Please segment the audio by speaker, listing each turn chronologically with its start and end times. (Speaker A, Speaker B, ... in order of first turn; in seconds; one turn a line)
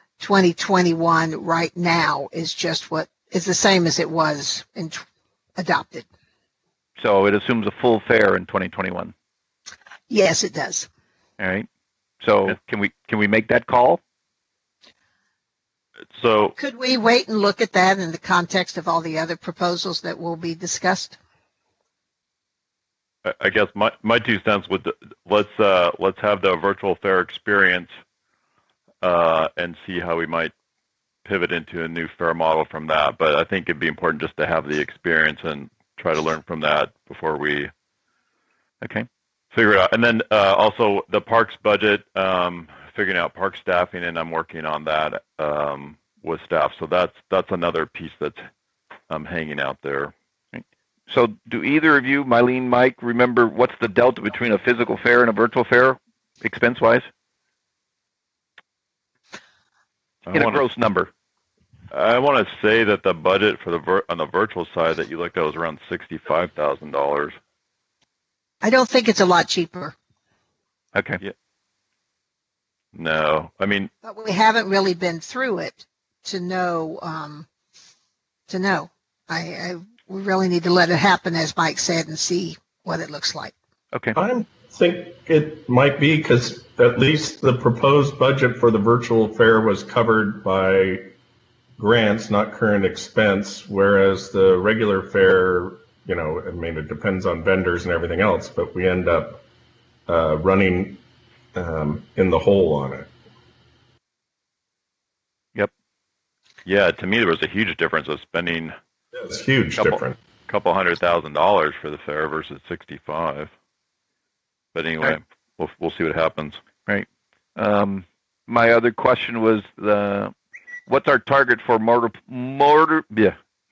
Speaker A: 0.2-5.0
Speaker A: 5.6-6.1
Speaker B: 7.0-9.1
Speaker A: 10.1-10.9
Speaker B: 11.4-11.7
Speaker B: 12.2-14.0
Speaker C: 16.1-16.6
Speaker A: 16.6-21.2
Speaker C: 23.2-27.9
Speaker C: 29.0-30.5
Speaker C: 31.2-37.7
Speaker B: 38.8-39.1
Speaker C: 39.5-48.4
Speaker C: 49.1-50.1
Speaker B: 50.5-57.1
Speaker C: 60.3-60.6
Speaker B: 60.3-61.1
Speaker C: 61.9-67.4
Speaker A: 68.6-69.9
Speaker B: 71.0-71.2
Speaker C: 72.9-73.9
Speaker A: 74.0-77.5
Speaker A: 78.5-83.5
Speaker D: 84.2-91.1
Speaker D: 91.8-99.4
Speaker D: 100.1-101.0
Speaker D: 101.5-103.1
Speaker C: 106.7-108.8
Speaker D: 109.1-110.2
Speaker C: 109.8-113.5
Speaker C: 114.7-116.6
Speaker B: 116.8-120.3
Speaker B: 120.9-123.4